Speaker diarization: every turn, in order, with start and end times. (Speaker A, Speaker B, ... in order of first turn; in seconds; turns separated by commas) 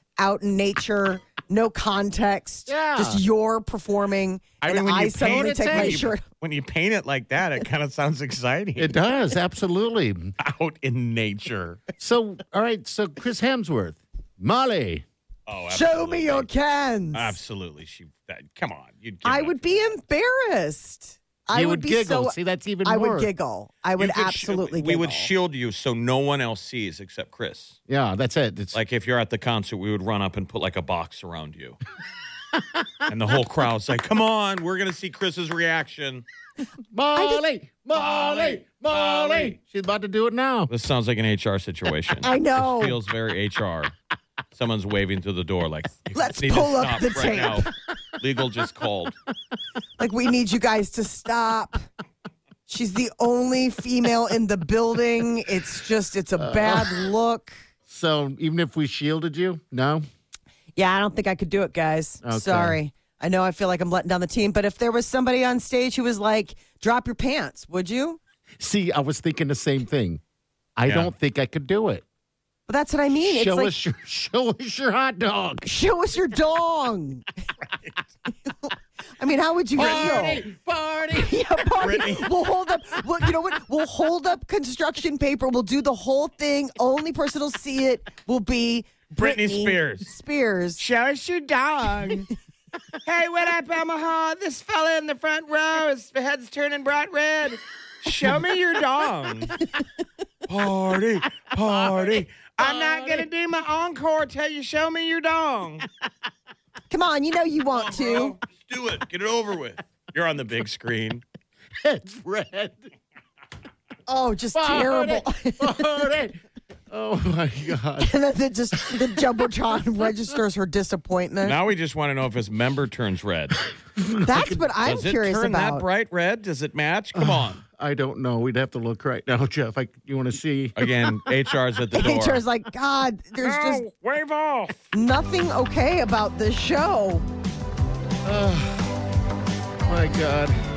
Speaker A: 0.2-6.2, Speaker B: 2.7-3.2, Speaker C: 4.6-9.0, Speaker B: 5.2-6.1, Speaker B: 8.8-10.3, Speaker C: 10.4-11.8, Speaker B: 12.0-15.0, Speaker C: 15.5-16.5, Speaker A: 15.7-17.4, Speaker C: 17.1-19.9, Speaker A: 19.2-25.3, Speaker B: 21.5-23.3, Speaker C: 24.0-27.8, Speaker B: 27.9-28.8, Speaker C: 28.7-31.8, Speaker B: 32.5-33.1, Speaker C: 33.1-36.2, Speaker B: 36.9-40.7, Speaker A: 37.1-37.4, Speaker C: 37.9-39.6, Speaker C: 40.7-43.9, Speaker A: 42.2-43.0, Speaker C: 44.5-47.7, Speaker A: 46.1-47.7, Speaker C: 48.2-49.1, Speaker A: 50.0-51.8, Speaker A: 52.7-57.5, Speaker B: 56.4-57.0, Speaker B: 57.9-60.0, Speaker A: 60.8-68.2, Speaker B: 62.2-62.8, Speaker B: 68.6-70.2, Speaker B: 70.8-72.0, Speaker C: 70.8-71.1, Speaker A: 72.7-73.7, Speaker B: 73.1-75.7, Speaker A: 75.6-77.2, Speaker A: 79.2-80.4, Speaker B: 79.8-81.3, Speaker C: 79.8-81.0, Speaker A: 81.1-90.8, Speaker C: 81.8-82.3, Speaker C: 89.2-90.1, Speaker C: 90.8-92.3, Speaker C: 93.0-99.5, Speaker C: 100.5-105.8, Speaker B: 101.6-103.3, Speaker A: 106.9-108.3, Speaker C: 107.7-111.2, Speaker B: 111.8-112.9, Speaker A: 114.1-116.0, Speaker B: 114.5-116.4, Speaker B: 116.9-118.1, Speaker A: 118.0-121.6, Speaker C: 121.4-123.6, Speaker B: 124.0-124.6, Speaker A: 124.2-125.8, Speaker C: 124.8-127.6, Speaker B: 127.1-131.1, Speaker C: 130.8-132.4, Speaker A: 131.9-133.8, Speaker C: 133.4-134.8, Speaker A: 134.9-137.2, Speaker B: 138.2-138.9, Speaker B: 139.8-140.6